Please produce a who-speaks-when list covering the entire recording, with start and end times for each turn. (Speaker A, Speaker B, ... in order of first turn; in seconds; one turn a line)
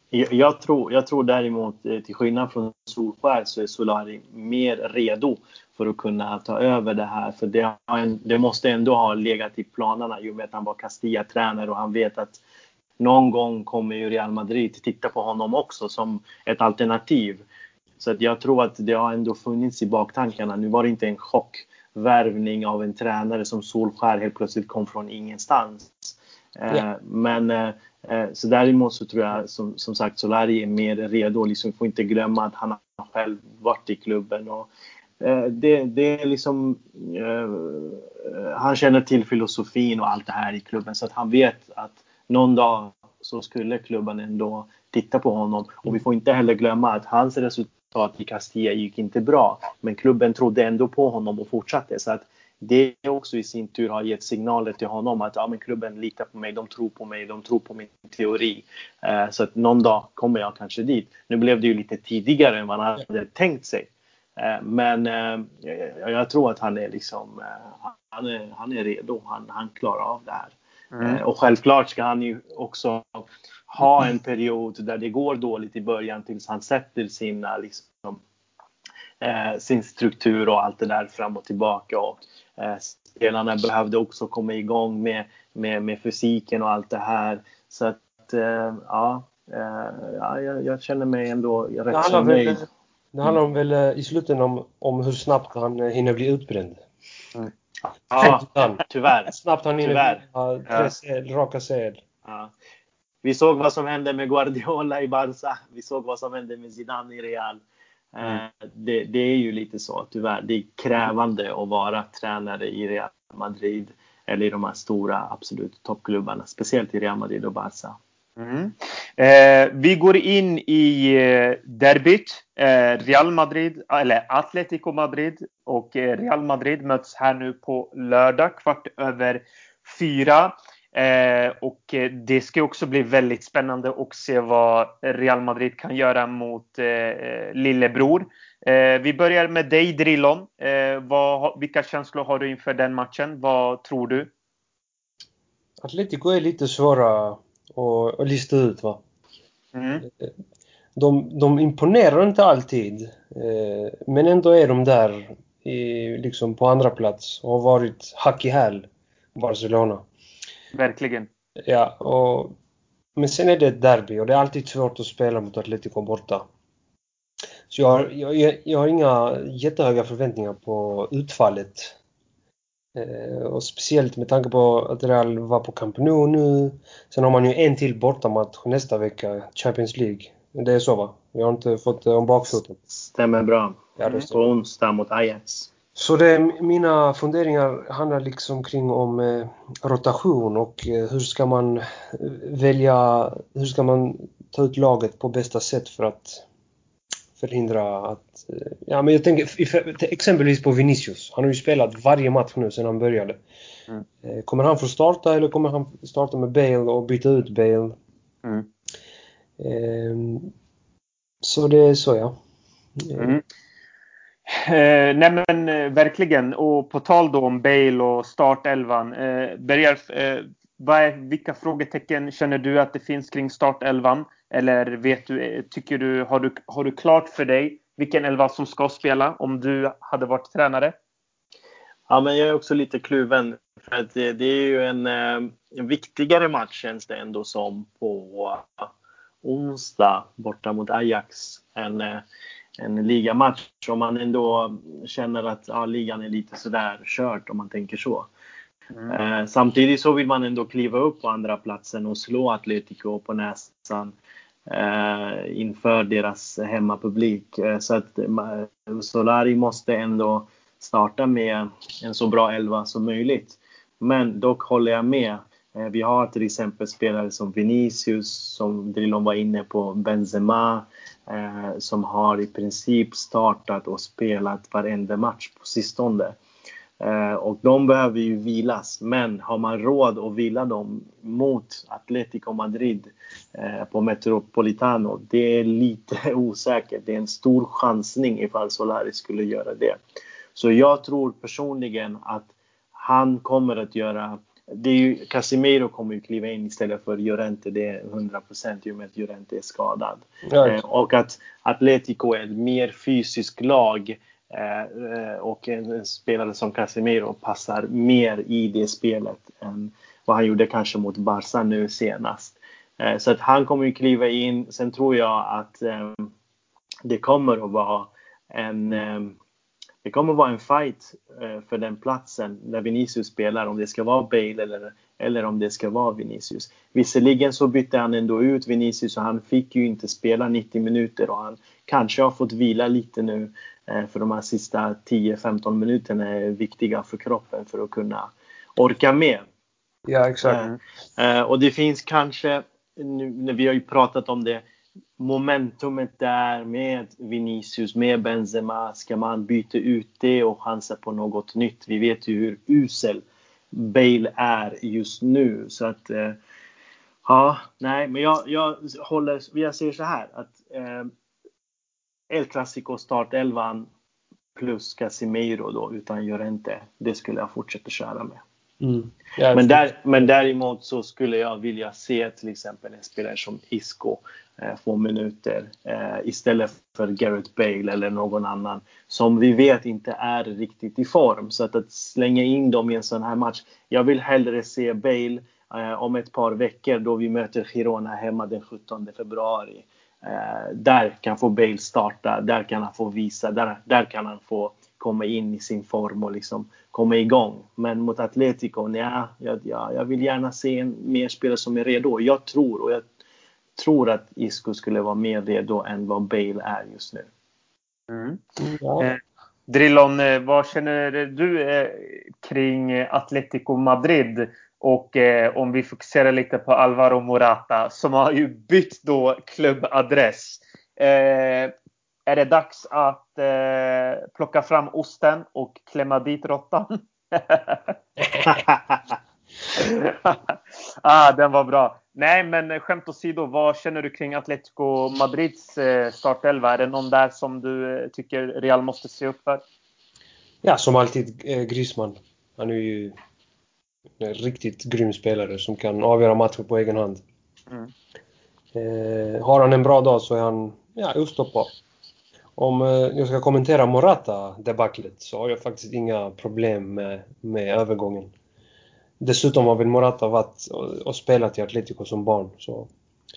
Speaker A: 0.1-12.4
Speaker A: 13.0-17.4
Speaker A: 18.0-34.7
Speaker A: 35.2-78.2
Speaker B: 70.9-71.2
Speaker A: 79.2-92.7
Speaker C: 91.9-96.8
Speaker A: 98.1-100.2
Speaker C: 98.2-102.0
Speaker A: 102.2-102.5
Speaker A: 103.2-107.6
Speaker A: 108.2-118.0
Speaker B: 118.4-144.3
Speaker C: 145.8-149.0
Speaker B: 149.7-150.1
Speaker C: 150.1-150.3
Speaker C: 151.0-160.1
Speaker B: 160.7-161.3
Speaker C: 161.6-162.6
Speaker C: 163.2-166.4
Speaker C: 167.7-172.0
Speaker C: 172.9-182.8
Speaker A: 182.9-185.7
Speaker C: 184.0-184.5
Speaker C: 186.0-196.4
Speaker C: 197.4-203.4
Speaker C: 204.2-208.0
Speaker C: 209.6-210.5
Speaker C: 211.4-212.4
Speaker C: 213.0-213.4
Speaker B: 213.2-213.4
Speaker B: 214.5-230.9
Speaker A: 232.1-238.9
Speaker A: 239.4-242.2
Speaker A: 242.8-248.3
Speaker A: 249.1-254.1
Speaker A: 254.7-276.4
Speaker A: 277.0-290.0
Speaker A: 290.6-316.3
Speaker C: 300.5-300.8
Speaker A: 317.1-319.4
Speaker A: 320.0-339.4
Speaker C: 340.1-340.7
Speaker A: 340.4-344.6
Speaker A: 345.2-356.4
Speaker A: 357.2-361.1
Speaker A: 362.3-363.9
Speaker A: 364.6-368.4
Speaker C: 368.8-369.9
Speaker A: 369.5-403.1
Speaker A: 403.8-407.3
Speaker B: 408.1-408.4
Speaker C: 408.6-409.1
Speaker B: 409.0-421.7
Speaker B: 422.3-428.0
Speaker B: 429.8-439.6
Speaker C: 440.6-443.1
Speaker C: 444.2-447.2
Speaker C: 448.7-451.7
Speaker C: 452.6-458.3
Speaker C: 459.2-462.9